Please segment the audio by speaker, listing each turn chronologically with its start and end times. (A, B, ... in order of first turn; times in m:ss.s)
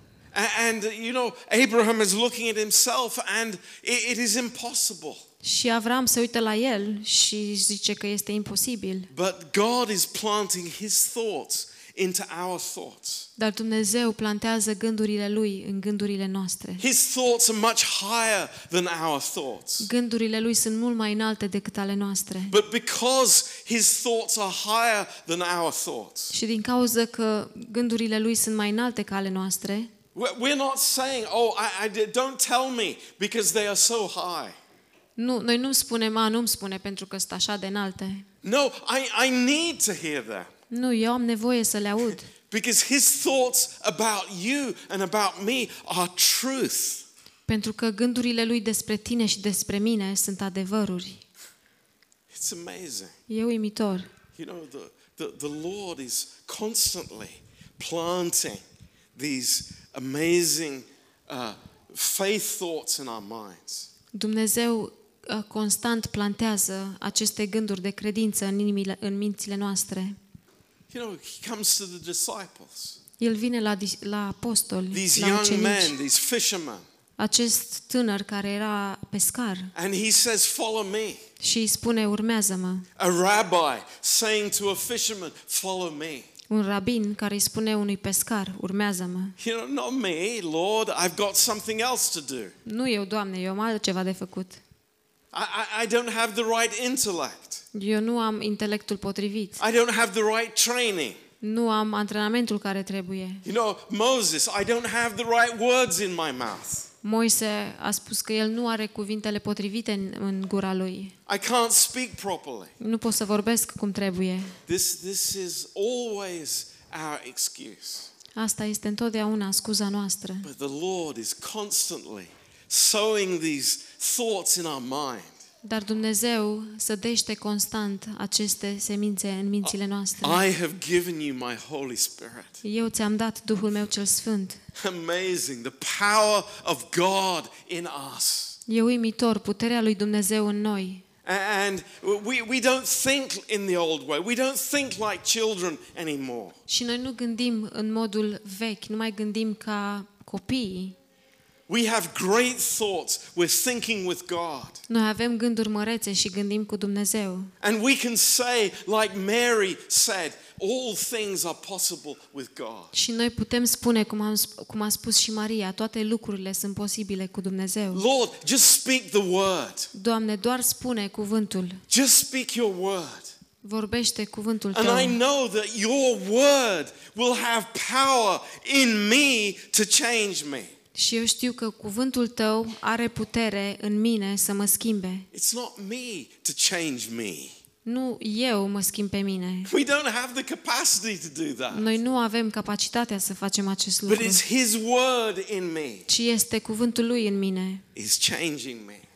0:00.3-0:05.2 A
0:05.4-0:09.1 B
0:09.1-0:13.3 A
0:13.4-0:16.8 B
0:16.8-0:19.9 A
0:19.8-0:22.5 B
0:22.5-0:26.3 A
0:26.3-0:29.9 B
0:30.1-0:34.6 A
0:35.2-0:38.2 B
0:38.4-0:40.5 A
0:40.7-0:42.3 B
0:42.5-0:47.0 A
0:47.5-0:51.2 B
0:52.3-0:53.1 A
0:53.3-0:54.1 B
0:54.3-0:58.6 A
0:59.1-1:03.9 A
1:04.1-1:10.2 B
1:10.9-1:13.0 A
1:13.2-1:15.9 B
1:14.9-1:16.8 A
1:17.2-1:19.7 B
1:19.7-1:21.2 A
1:21.4-1:22.8 B
1:23.0-1:26.3 A
1:26.5-1:29.4 B
1:29.4-1:32.5 A
1:32.6-1:34.6 B
1:35.3-1:37.6 A
1:37.7-1:39.6 B
1:39.6-1:41.2 A
1:41.4-1:43.4 B
1:43.4-1:46.9 A
1:47.0-1:51.1 B
1:51.3-1:52.7 A
1:52.8-1:54.6 B
1:54.7-1:58.1 A
1:58.3-2:00.5 B
2:00.4-2:05.3 A
2:05.6-2:10.4 B
2:10.2-2:12.6 A
2:12.6-2:14.6 B
2:14.8-2:18.6 A
2:18.7-2:21.0 B
2:21.2-2:26.6 A
2:26.7-2:31.0 B
2:31.7-2:34.8 A
2:34.9-2:37.5 B
2:37.6-2:42.9 A
2:42.9-2:48.0 B
2:47.9-2:49.9 A
2:49.9-2:51.8 B
2:51.9-2:53.3 A
2:53.6-2:55.2 B
2:54.7-3:00.7 A
3:00.9-3:05.3 B
3:05.3-3:07.5 A
3:07.8-3:09.7 B
3:09.6-3:12.0 A
3:11.7-3:14.4 B
3:14.1-3:16.1 A
3:16.1-3:17.8 B
3:17.9-3:19.0 A